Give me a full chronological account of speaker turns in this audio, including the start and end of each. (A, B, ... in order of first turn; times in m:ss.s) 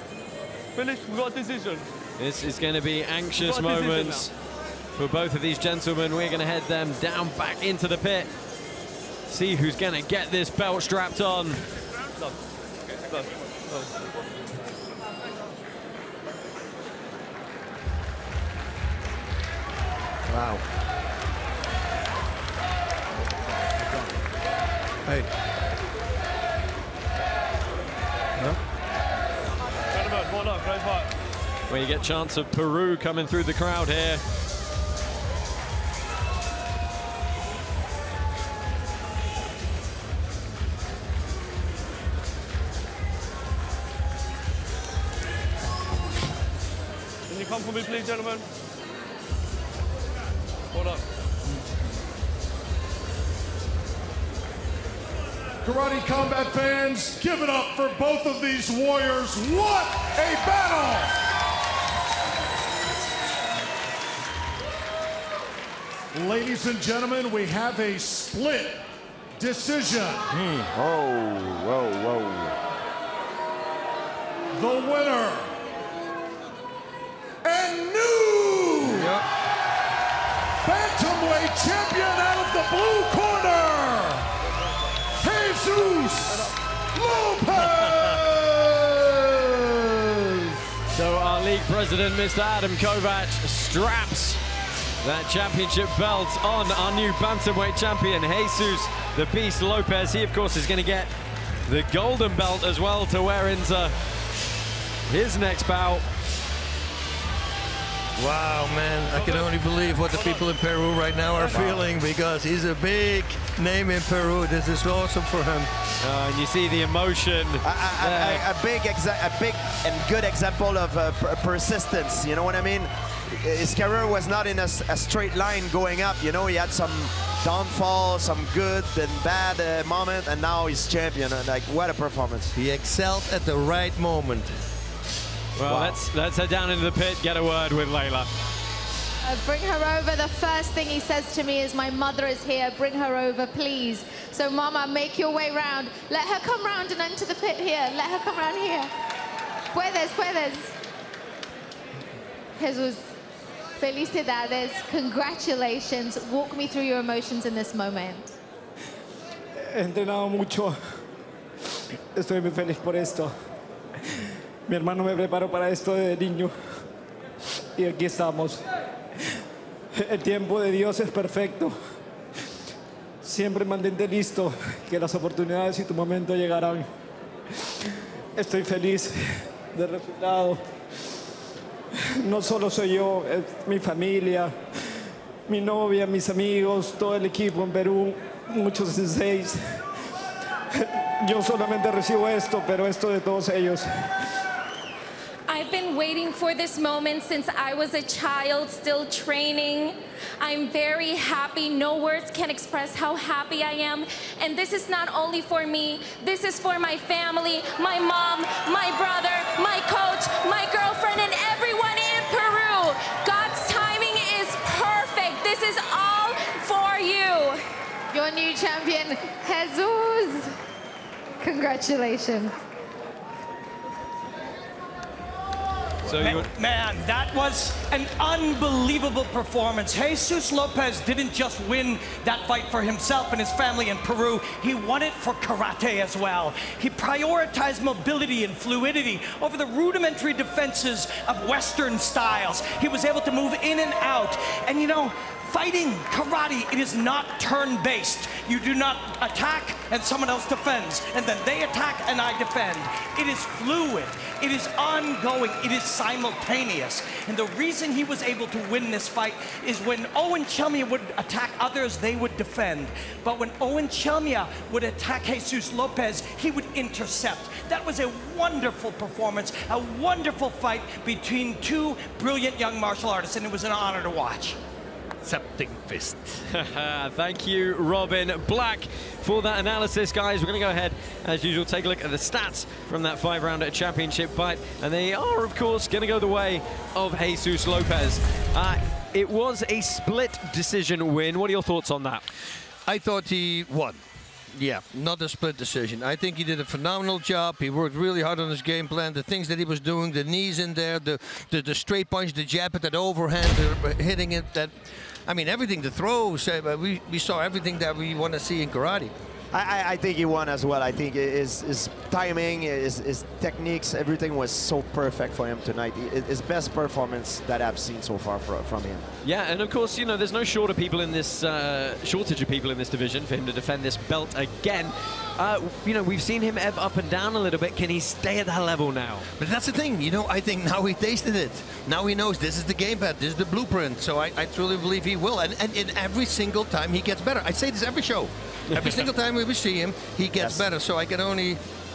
0:00.7-0:01.9 A
0:02.2-0:04.4 B
0:03.4-0:04.3 A
0:05.0-0:08.3 B
0:09.3-0:11.6 B
0:13.1-0:14.1 A
0:20.3-0:20.6 C
0:25.0-0:25.3 C
0:29.9-0:31.1 A
0:31.7-0:34.2 B
0:47.3-0:48.5 A
0:50.7-0:51.0 A
0:55.6-1:01.2 D
1:06.1-1:08.8 D
1:09.4-1:10.3 D
1:10.3-1:10.7 C
1:10.7-1:12.6 E
1:14.5-1:15.5 D
1:17.4-1:19.1 D
1:18.8-1:19.3 C
1:20.6-1:24.3 D
1:25.2-1:30.2 D
1:25.8-1:26.5 A
1:27.6-1:28.2 C
1:30.9-1:34.4 B
1:35.0-1:41.1 B
1:41.7-1:44.0 B
1:45.1-1:46.1 B
1:48.2-1:55.7 C
1:49.1-1:49.5 A
1:50.1-1:50.4 A
1:51.4-1:51.8 A
1:56.0-1:58.4 B
1:57.6-2:12.6 E
2:12.5-2:14.6 C
2:15.6-2:18.3 B
2:15.7-2:16.0 E
2:19.2-2:28.9 F
2:29.7-2:30.8 F
2:32.6-2:33.1 F
2:33.8-2:38.4 F
2:39.6-2:40.8 G
2:42.2-2:43.3 G
2:44.7-2:46.6 G
2:47.8-2:48.6 G
2:50.0-2:51.8 G
2:53.2-2:56.9 G
2:58.4-2:59.2 G
2:59.7-3:00.7 G
3:02.2-3:04.6 G
3:05.5-3:09.8 G
3:10.8-3:13.9 G
3:15.5-3:37.6 H
3:38.1-3:40.6 F
3:41.4-3:42.6 F
3:46.0-3:46.5 B
3:46.1-4:34.6 I
4:35.2-4:36.5 C
4:36.5-4:52.2 B
4:52.9-5:09.1 C
5:09.5-5:19.0 E
5:19.2-5:29.3 B
5:29.4-5:41.6 C
5:38.7-5:39.0 B
5:40.4-5:40.6 E